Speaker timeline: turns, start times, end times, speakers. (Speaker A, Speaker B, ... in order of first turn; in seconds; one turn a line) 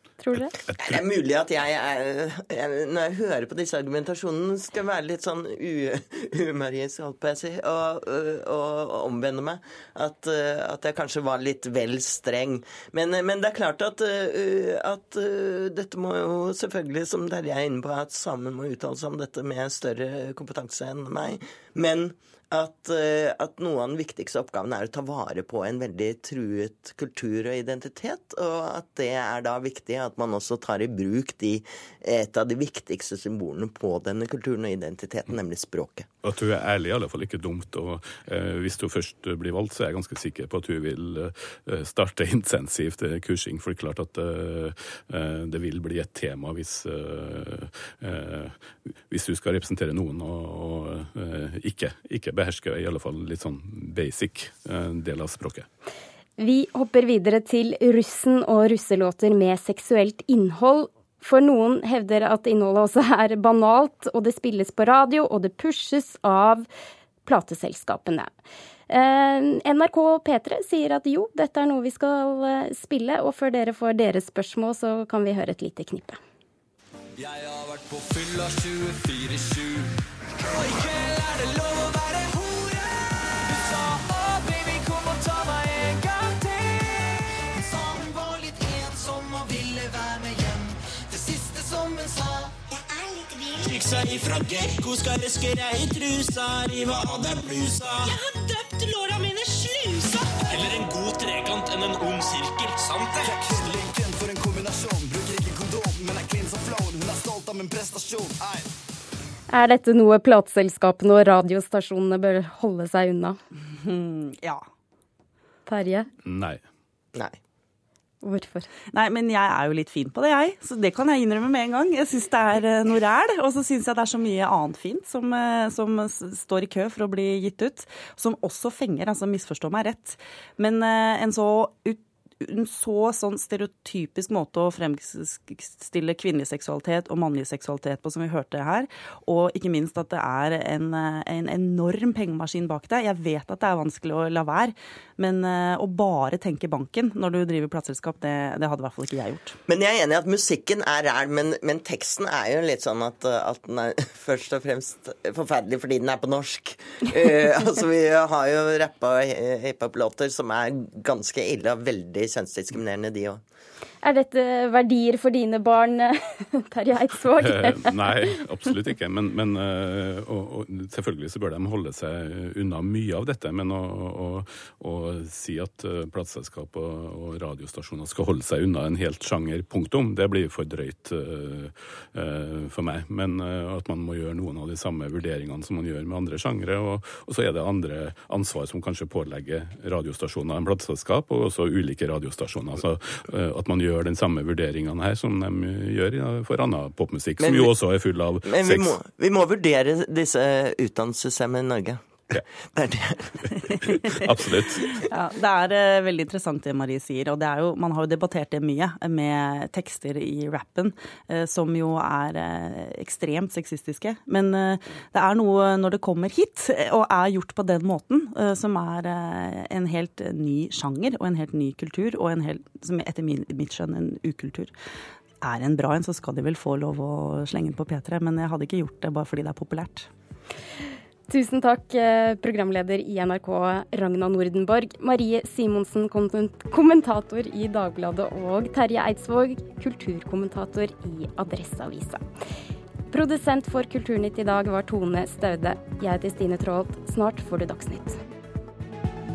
Speaker A: 0.2-0.5
Speaker B: 0.7-1.0
Speaker C: 0.8-36.1
Speaker B: 36.2-55.7
Speaker A: 56.4-66.7
Speaker A: 67.3-68.3
Speaker A: 68.9-76.2
Speaker D: 77.2-80.0
Speaker D: 80.5-92.5
Speaker D: 93.5-99.2
Speaker D: 99.9-103.4
Speaker E: 103.2-108.7
Speaker A: 109.5-113.4
Speaker F: 113.7-114.6
Speaker A: 115.7-116.1
Speaker B: 116.2-116.6
Speaker A: 118.2-118.7
Speaker F: 118.9-149.6
Speaker C: 149.7-163.4
Speaker A: 164.0-168.1
Speaker B: 167.4-199.0
Speaker C: 197.4-197.7
Speaker C: 198.4-203.3
Speaker B: 204.1-205.0
Speaker F: 205.0-224.7
Speaker F: 225.4-230.1
Speaker A: 231.3-242.2
Speaker A: 243.1-248.2